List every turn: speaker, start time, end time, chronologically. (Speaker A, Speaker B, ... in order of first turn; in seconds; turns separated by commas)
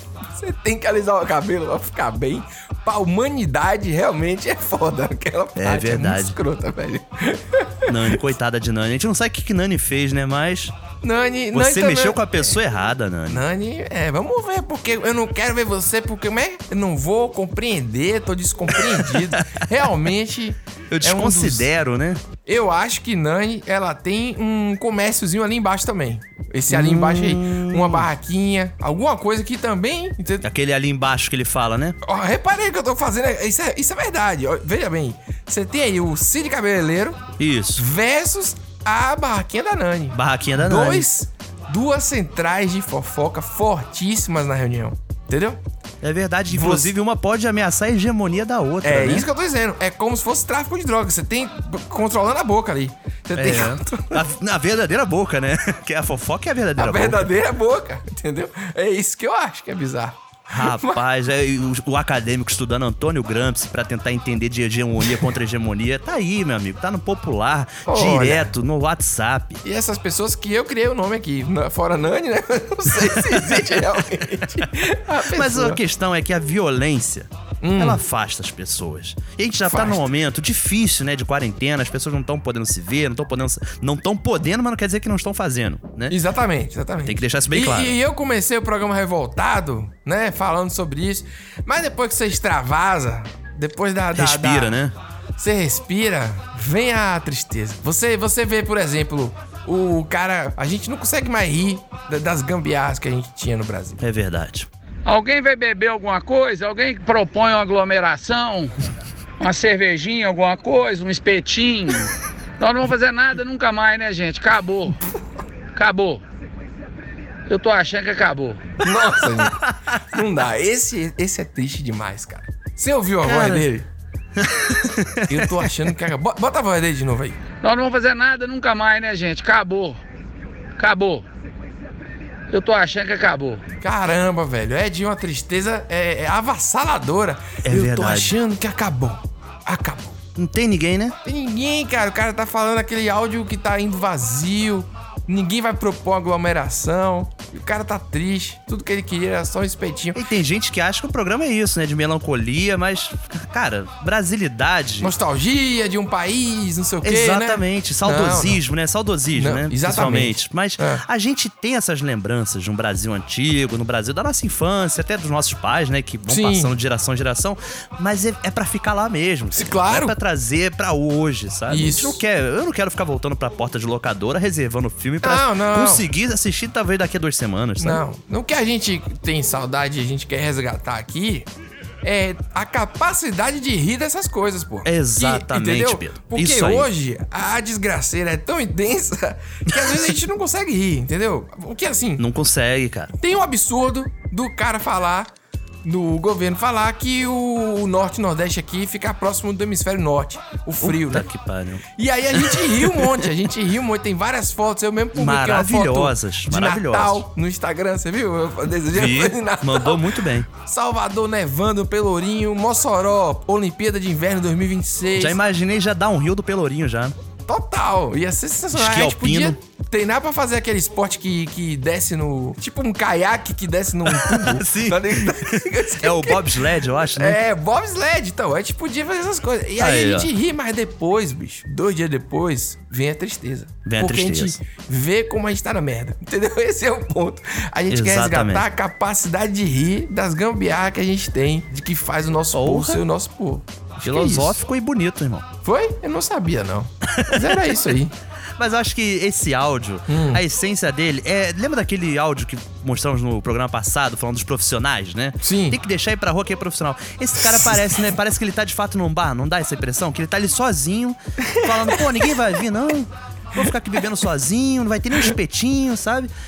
Speaker A: 0.3-8.2, Speaker B: 5.6-6.4, Speaker B: 7.9-10.7, Speaker A: 11.0-12.5, Speaker B: 11.5-13.4, Speaker A: 13.3-21.7, Speaker B: 18.8-19.4, Speaker B: 20.9-22.2, Speaker A: 22.4-30.4, Speaker B: 26.7-28.1, Speaker B: 30.4-32.0, Speaker A: 32.0-37.2, Speaker B: 37.4-37.8, Speaker A: 37.8-45.6, Speaker B: 40.1-41.1, Speaker B: 46.0-49.3, Speaker A: 46.5-46.9, Speaker A: 48.8-54.2, Speaker B: 53.4-57.3, Speaker A: 56.8-61.0, Speaker B: 60.5-69.6, Speaker A: 67.8-68.5, Speaker A: 69.6-75.8, Speaker B: 73.0-73.7, Speaker B: 75.3-86.2, Speaker A: 77.6-78.0, Speaker A: 79.6-80.1, Speaker A: 86.1-94.8, Speaker B: 87.0-88.0, Speaker B: 94.1-94.9, Speaker A: 95.4-104.0, Speaker B: 104.0-104.7, Speaker C: 105.0-108.7, Speaker C: 109.4-115.0, Speaker C: 115.7-116.2, Speaker C: 117.5-118.7, Speaker A: 118.8-123.9, Speaker B: 123.2-123.7, Speaker B: 124.4-125.7, Speaker A: 125.3-127.4, Speaker C: 127.6-130.0, Speaker C: 130.8-131.2, Speaker C: 132.5-133.6, Speaker A: 133.8-140.2, Speaker B: 137.6-138.4, Speaker B: 140.3-141.1, Speaker A: 141.2-150.2, Speaker B: 150.1-155.1, Speaker A: 155.0-158.6, Speaker B: 157.0-178.0, Speaker A: 159.3-161.0, Speaker A: 166.3-166.7, Speaker A: 169.5-170.1, Speaker A: 171.7-172.2, Speaker A: 175.2-176.1, Speaker A: 177.8-181.5, Speaker A: 182.0-192.2, Speaker B: 184.8-186.9, Speaker B: 189.7-190.0, Speaker B: 192.2-193.1, Speaker A: 193.2-195.3, Speaker A: 195.8-201.3, Speaker B: 200.8-203.3, Speaker A: 202.0-210.0, Speaker B: 205.1-207.2, Speaker B: 208.9-210.5, Speaker A: 210.6-215.4, Speaker B: 215.2-217.1, Speaker A: 217.5-226.5, Speaker B: 218.7-219.6, Speaker B: 224.1-227.4, Speaker A: 227.1-244.6, Speaker B: 229.8-230.3, Speaker B: 233.8-234.6, Speaker B: 237.9-238.7, Speaker B: 242.5-243.0, Speaker B: 244.0-245.4, Speaker A: 245.6-248.1, Speaker B: 247.1-247.8, Speaker B: 248.6-266.3, Speaker A: 250.1-250.4, Speaker A: 255.4-255.8, Speaker A: 257.5-257.7, Speaker A: 261.4-262.3